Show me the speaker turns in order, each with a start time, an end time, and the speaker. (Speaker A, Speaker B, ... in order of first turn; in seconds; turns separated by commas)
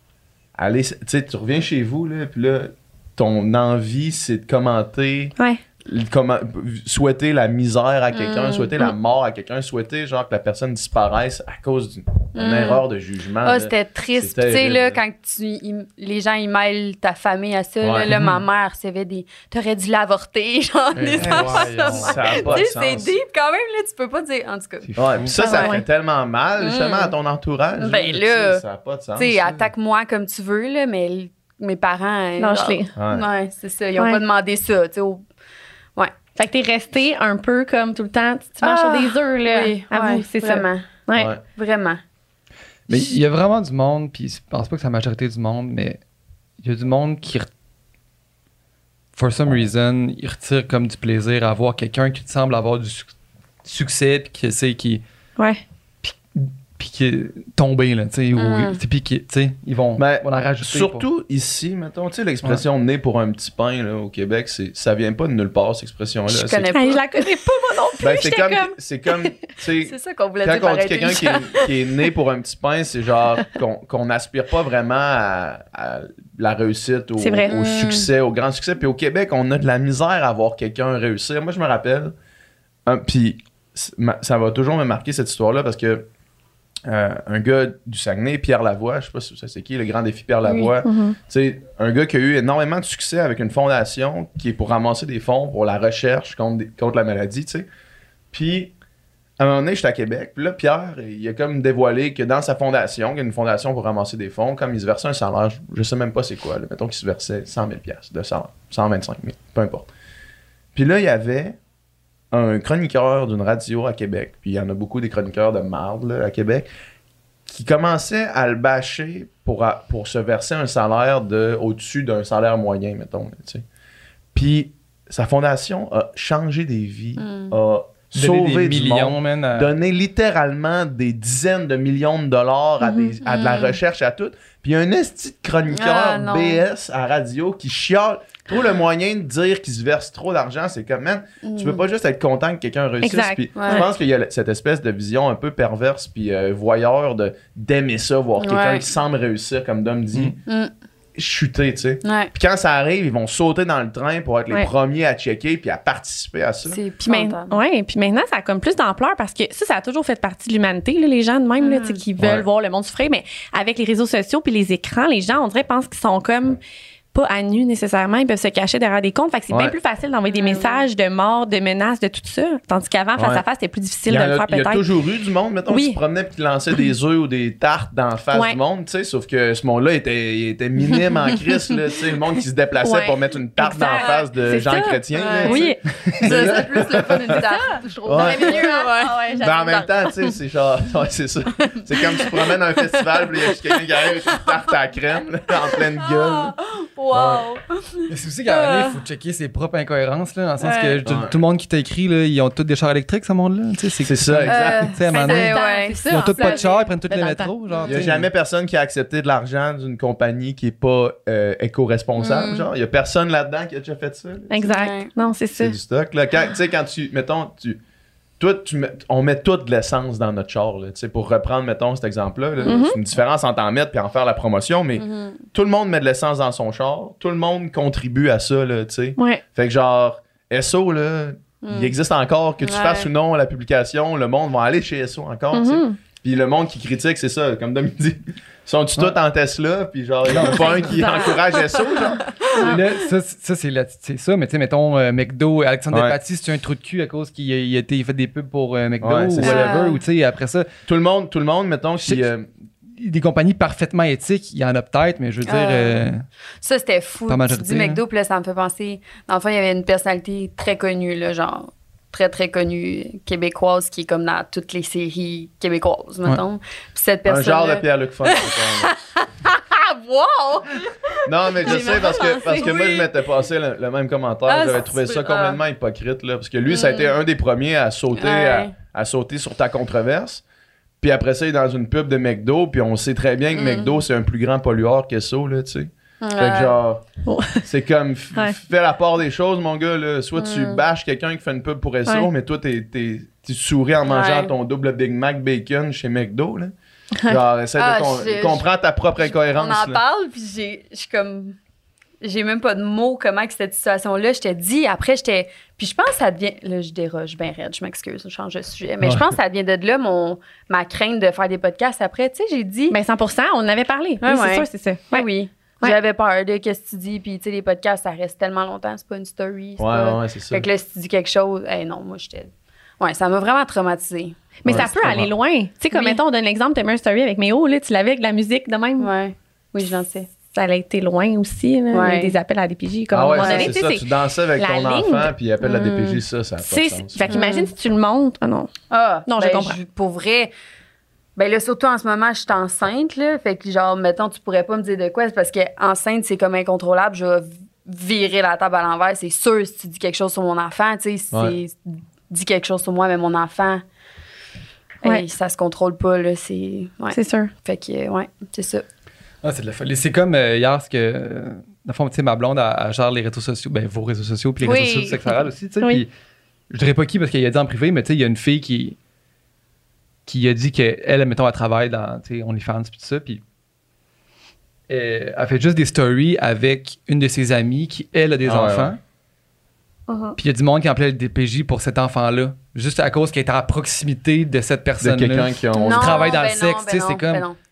Speaker A: 0.6-5.3, Speaker A: 5.8-15.0, Speaker B: 8.1-8.9, Speaker B: 12.4-12.8, Speaker B: 13.4-25.8, Speaker A: 17.8-18.1, Speaker C: 18.1-18.4, Speaker C: 20.9-22.6, Speaker A: 21.1-23.2, Speaker C: 24.8-25.3, Speaker A: 25.0-29.7, Speaker D: 25.4-25.9, Speaker B: 26.6-27.1, Speaker B: 27.8-28.6, Speaker B: 29.2-35.3, Speaker D: 32.4-32.9, Speaker A: 33.0-33.3, Speaker D: 36.4-41.3, Speaker B: 38.6-40.9, Speaker A: 41.1-41.4, Speaker B: 41.5-42.0, Speaker C: 42.9-46.0, Speaker C: 46.6-47.5, Speaker C: 49.2-53.1, Speaker C: 53.6-55.0, Speaker D: 55.4-55.6, Speaker C: 56.0-61.0, Speaker B: 58.4-58.8, Speaker A: 60.0-66.7, Speaker B: 66.3-67.0, Speaker D: 66.7-68.8, Speaker A: 68.0-82.1, Speaker B: 69.8-71.7, Speaker D: 77.2-77.6, Speaker B: 77.5-78.1, Speaker A: 82.9-86.0, Speaker A: 86.8-97.7, Speaker B: 90.5-90.7, Speaker D: 90.8-91.2, Speaker A: 98.3-98.7, Speaker A: 99.4-109.9, Speaker A: 110.7-111.6, Speaker A: 112.3-116.7, Speaker A: 117.5-123.7, Speaker A: 124.3-150.4, Speaker B: 127.2-127.5, Speaker C: 128.1-129.7, Speaker D: 132.8-133.1, Speaker B: 133.2-133.8, Speaker B: 135.7-136.6, Speaker B: 141.4-141.8, Speaker D: 143.0-143.9, Speaker B: 143.6-143.9, Speaker B: 148.4-148.9, Speaker B: 150.5-150.7, Speaker A: 151.2-156.8, Speaker B: 152.0-152.3, Speaker B: 156.7-157.6, Speaker D: 157.1-166.6, Speaker B: 161.6-162.0, Speaker A: 162.2-162.5, Speaker D: 167.1-174.9, Speaker A: 169.5-169.8, Speaker B: 170.3-170.9, Speaker A: 173.2-173.4, Speaker A: 174.1-187.4, Speaker D: 175.7-176.0, Speaker D: 178.3-178.6, Speaker D: 182.8-185.8, Speaker B: 185.1-190.1, Speaker D: 187.3-189.8, Speaker A: 188.1-188.7, Speaker A: 189.4-196.6, Speaker B: 191.9-194.6, Speaker B: 195.6-199.0, Speaker A: 197.1-197.5, Speaker C: 198.1-208.3, Speaker B: 200.6-201.0, Speaker A: 201.0-201.4, Speaker A: 204.0-204.9, Speaker B: 204.5-206.7, Speaker D: 205.1-207.6, Speaker A: 207.8-214.5, Speaker B: 212.2-212.7, Speaker D: 214.5-215.8, Speaker B: 214.6-215.1, Speaker A: 215.6-217.8, Speaker A: 218.4-242.7, Speaker D: 222.7-223.0, Speaker B: 225.0-225.4, Speaker D: 229.2-229.4, Speaker B: 231.6-231.9, Speaker B: 232.6-233.1, Speaker D: 235.5-236.0, Speaker C: 240.3-240.9, Speaker D: 240.7-242.0, Speaker B: 242.5-242.8, Speaker C: 242.6-250.7, Speaker A: 245.9-246.2, Speaker A: 249.0-249.8, Speaker B: 249.4-250.0, Speaker A: 250.9-252.5, Speaker C: 253.0-256.2, Speaker B: 255.4-256.1, Speaker B: 256.6-273.2, Speaker C: 257.3-258.0, Speaker A: 267.2-268.9, Speaker A: 271.2-280.4, Speaker D: 271.6-272.8, Speaker B: 274.5-275.6, Speaker B: 276.7-277.1, Speaker B: 278.1-278.7, Speaker A: 281.0-287.0, Speaker B: 283.5-284.0, Speaker B: 286.2-286.8, Speaker D: 287.3-287.6, Speaker A: 287.6-296.7, Speaker B: 290.4-290.8, Speaker B: 294.1-294.5, Speaker A: 297.2-300.0, Speaker B: 297.8-298.7, Speaker B: 299.2-301.6, Speaker B: 302.2-313.0, Speaker D: 312.9-315.3, Speaker B: 314.2-324.5, Speaker A: 319.8-320.7, Speaker D: 324.6-329.1, Speaker A: 324.7-325.3, Speaker B: 325.9-326.2, Speaker B: 329.0-330.3, Speaker D: 330.5-335.3, Speaker B: 331.9-332.4, Speaker A: 333.1-337.3, Speaker B: 333.4-333.7, Speaker B: 335.6-336.2, Speaker D: 336.6-338.7, Speaker B: 337.3-337.7, Speaker B: 338.9-340.5, Speaker D: 339.3-339.8, Speaker B: 341.4-353.8, Speaker A: 351.3-351.6, Speaker B: 355.0-358.9, Speaker D: 357.1-357.5, Speaker C: 359.4-366.1, Speaker B: 364.6-365.4, Speaker C: 366.7-369.0, Speaker C: 370.3-373.4, Speaker C: 374.9-379.0, Speaker A: 378.4-379.0, Speaker D: 380.1-380.4, Speaker C: 380.4-387.5, Speaker A: 385.0-386.4, Speaker B: 385.7-387.6